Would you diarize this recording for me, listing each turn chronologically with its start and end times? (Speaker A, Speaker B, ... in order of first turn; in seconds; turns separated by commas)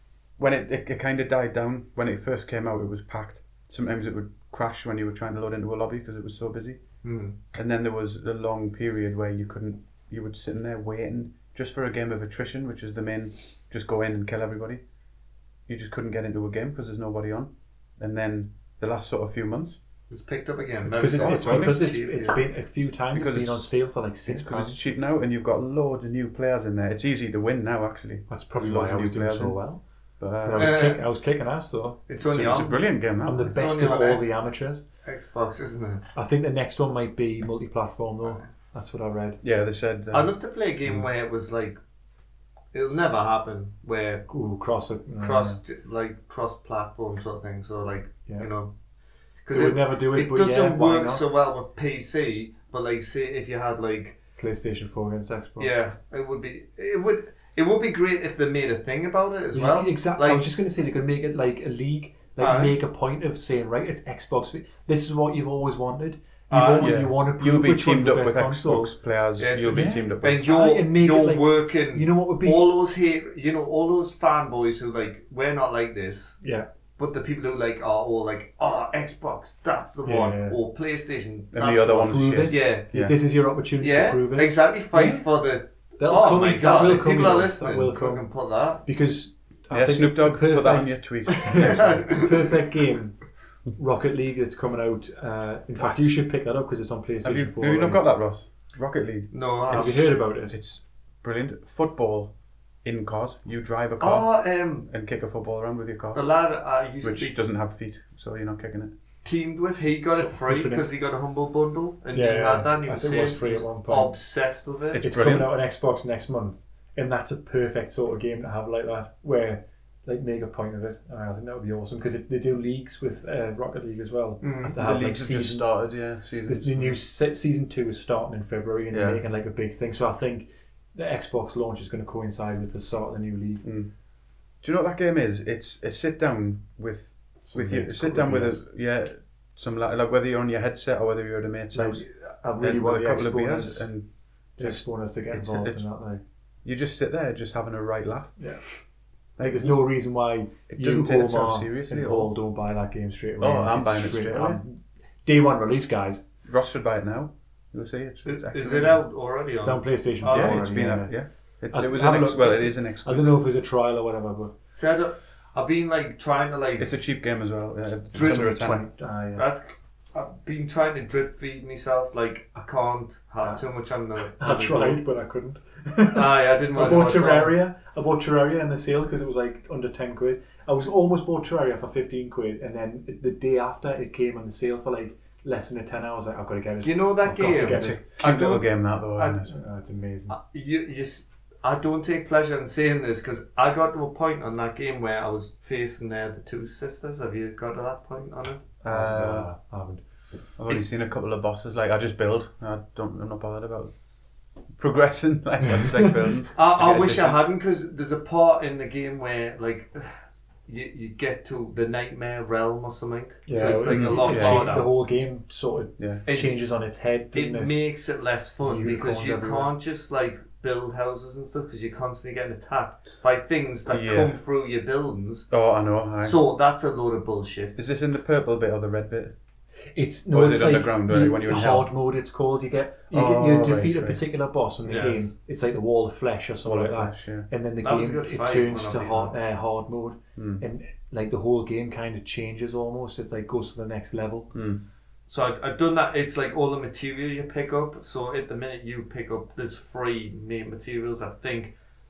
Speaker A: 0.4-6.8, Speaker B: 7.0-7.4, Speaker A: 7.5-14.8, Speaker A: 15.7-19.8, Speaker B: 20.1-22.4, Speaker C: 20.9-24.8, Speaker A: 21.1-21.9, Speaker A: 23.1-29.6, Speaker C: 28.3-29.8, Speaker A: 30.2-30.8, Speaker C: 30.4-32.0, Speaker B: 30.6-31.0, Speaker B: 32.1-33.0, Speaker A: 32.2-33.5, Speaker C: 33.2-34.9, Speaker B: 33.5-34.4, Speaker B: 35.0-36.0, Speaker C: 36.1-39.4, Speaker A: 39.4-40.3, Speaker B: 40.1-41.8, Speaker B: 42.7-44.3, Speaker C: 44.3-45.6, Speaker B: 45.2-48.7, Speaker B: 49.4-54.2, Speaker C: 49.5-51.2, Speaker C: 54.4-55.7, Speaker B: 55.6-60.5, Speaker C: 59.5-69.0, Speaker B: 62.4-62.8, Speaker B: 66.5-67.0, Speaker A: 66.8-70.4, Speaker B: 69.4-76.3, Speaker C: 69.5-72.7, Speaker C: 76.4-76.7, Speaker B: 77.0-82.9, Speaker C: 80.0-80.6, Speaker A: 81.5-83.2, Speaker C: 82.0-85.3, Speaker B: 83.8-88.8, Speaker C: 86.0-88.3, Speaker C: 88.8-93.2, Speaker A: 89.7-91.9, Speaker B: 91.5-92.3, Speaker C: 93.7-98.0, Speaker A: 95.8-96.2, Speaker A: 97.2-102.3, Speaker B: 99.3-100.2, Speaker C: 99.7-100.6, Speaker A: 102.8-104.3, Speaker B: 104.0-104.9, Speaker A: 104.8-106.3, Speaker B: 106.1-107.4, Speaker A: 107.0-108.9, Speaker B: 109.2-115.0, Speaker C: 109.9-110.9, Speaker C: 112.1-114.2, Speaker A: 114.9-115.5, Speaker C: 115.0-125.8, Speaker B: 124.4-124.7, Speaker A: 124.7-127.0, Speaker C: 126.5-133.6, Speaker A: 128.9-129.2, Speaker A: 133.6-133.9, Speaker A: 134.6-142.1, Speaker C: 137.4-138.6, Speaker C: 141.7-143.9, Speaker A: 142.6-145.9, Speaker C: 144.6-146.2, Speaker A: 146.6-148.4, Speaker C: 148.4-148.6, Speaker A: 149.4-149.8, Speaker C: 149.4-156.2, Speaker A: 150.7-152.3, Speaker A: 153.4-154.6, Speaker A: 156.4-159.0, Speaker B: 158.3-160.7, Speaker C: 159.6-161.2, Speaker A: 160.3-163.4, Speaker C: 161.7-164.5, Speaker B: 164.7-166.9, Speaker A: 166.8-168.9, Speaker B: 168.1-168.5, Speaker C: 168.1-169.4, Speaker B: 169.3-175.0, Speaker C: 174.3-188.0, Speaker B: 176.1-177.6, Speaker B: 186.8-189.4, Speaker A: 187.5-189.5, Speaker C: 189.5-190.3, Speaker B: 190.3-198.6, Speaker A: 198.8-199.5, Speaker C: 198.8-200.0, Speaker A: 200.6-203.9, Speaker A: 204.8-207.4, Speaker C: 205.8-206.1, Speaker B: 206.6-210.1, Speaker B: 210.7-214.9, Speaker C: 213.4-217.7, Speaker A: 213.9-214.7, Speaker A: 216.0-216.2, Speaker B: 216.3-216.6, Speaker B: 217.3-225.5, Speaker C: 218.6-219.7, Speaker A: 223.9-224.4, Speaker A: 225.5-226.4, Speaker B: 226.2-227.8, Speaker A: 227.8-229.3, Speaker C: 229.9-244.5, Speaker A: 230.3-231.9, Speaker A: 233.1-234.3, Speaker B: 234.8-235.3, Speaker A: 236.6-237.5, Speaker B: 237.8-239.4, Speaker A: 240.3-240.6, Speaker A: 244.5-244.8, Speaker B: 245.3-251.7